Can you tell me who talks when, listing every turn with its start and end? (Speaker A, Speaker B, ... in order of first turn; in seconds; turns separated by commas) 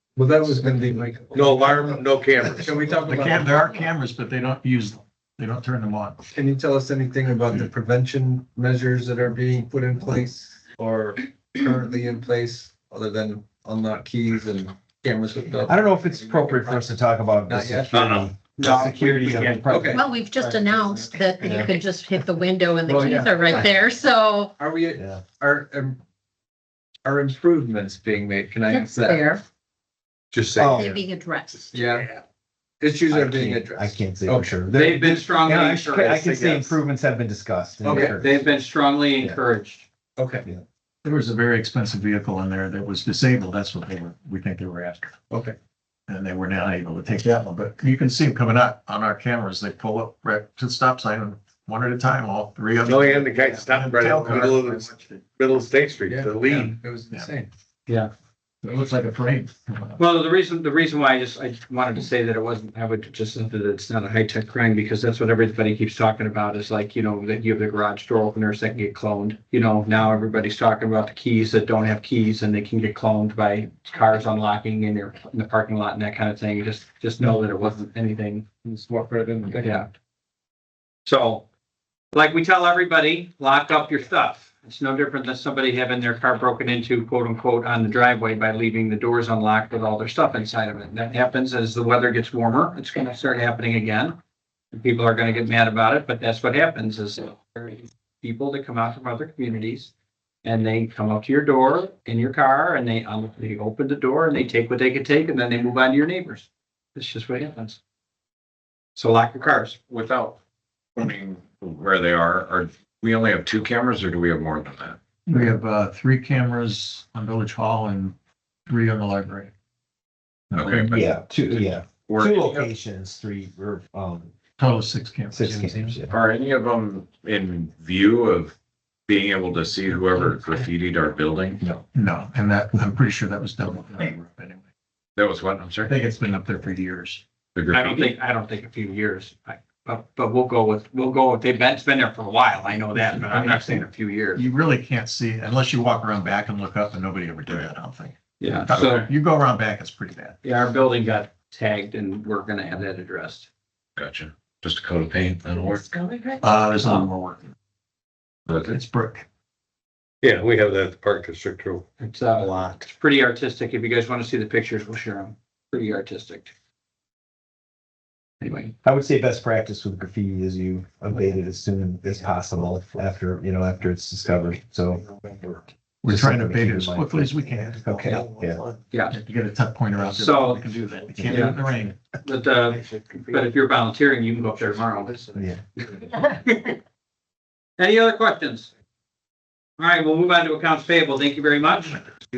Speaker A: 0.2-3.7, Speaker B: 1.3-3.0, Speaker C: 3.0-6.2, Speaker A: 6.3-16.9, Speaker D: 15.7-21.8, Speaker A: 17.5-18.3, Speaker E: 17.9-19.9, Speaker A: 19.7-20.1, Speaker F: 19.9-24.6, Speaker A: 22.9-23.8, Speaker A: 24.6-26.0, Speaker D: 25.0-25.2, Speaker A: 27.0-29.3, Speaker F: 28.7-29.4, Speaker A: 30.3-30.8, Speaker D: 30.6-31.0, Speaker F: 30.8-31.9, Speaker A: 31.7-32.2, Speaker A: 32.8-35.2, Speaker D: 33.1-38.4, Speaker E: 34.7-36.8, Speaker A: 37.8-38.2, Speaker E: 37.9-39.9, Speaker A: 40.2-40.5, Speaker C: 41.0-45.3, Speaker A: 45.3-45.5, Speaker C: 46.1-55.4, Speaker B: 52.8-56.7, Speaker A: 56.0-57.5, Speaker C: 58.6-60.0, Speaker E: 60.0-78.5, Speaker A: 78.6-79.9, Speaker E: 79.6-79.9, Speaker E: 81.0-81.5, Speaker E: 82.1-94.2, Speaker E: 94.7-99.9, Speaker E: 100.4-107.8, Speaker E: 109.0-109.8, Speaker G: 109.9-110.4, Speaker G: 111.0-115.0, Speaker C: 115.3-118.2, Speaker C: 118.7-119.5, Speaker C: 120.5-121.1, Speaker G: 120.5-122.7, Speaker D: 120.8-124.3, Speaker C: 124.6-126.0, Speaker D: 125.3-126.1, Speaker G: 126.1-128.6, Speaker G: 129.1-131.6, Speaker C: 131.9-134.7, Speaker G: 135.2-136.0, Speaker C: 135.9-137.2, Speaker G: 137.6-138.1, Speaker E: 137.7-144.4, Speaker C: 142.9-150.4, Speaker E: 148.4-149.1, Speaker G: 148.8-149.0, Speaker E: 150.4-153.5, Speaker G: 154.0-155.9, Speaker F: 155.7-156.3, Speaker C: 156.4-157.5, Speaker E: 156.8-157.1, Speaker G: 158.5-158.7, Speaker C: 158.7-159.3, Speaker B: 160.2-161.7, Speaker G: 161.0-161.8, Speaker E: 162.0-166.5, Speaker E: 168.4-168.8, Speaker D: 168.8-175.2, Speaker C: 176.0-178.5, Speaker D: 176.1-178.6, Speaker E: 178.9-179.2, Speaker C: 179.1-182.0, Speaker E: 180.1-180.7, Speaker D: 181.2-181.6, Speaker E: 181.2-181.6, Speaker E: 182.2-186.8, Speaker D: 185.3-185.6, Speaker E: 187.8-188.7, Speaker E: 189.8-192.0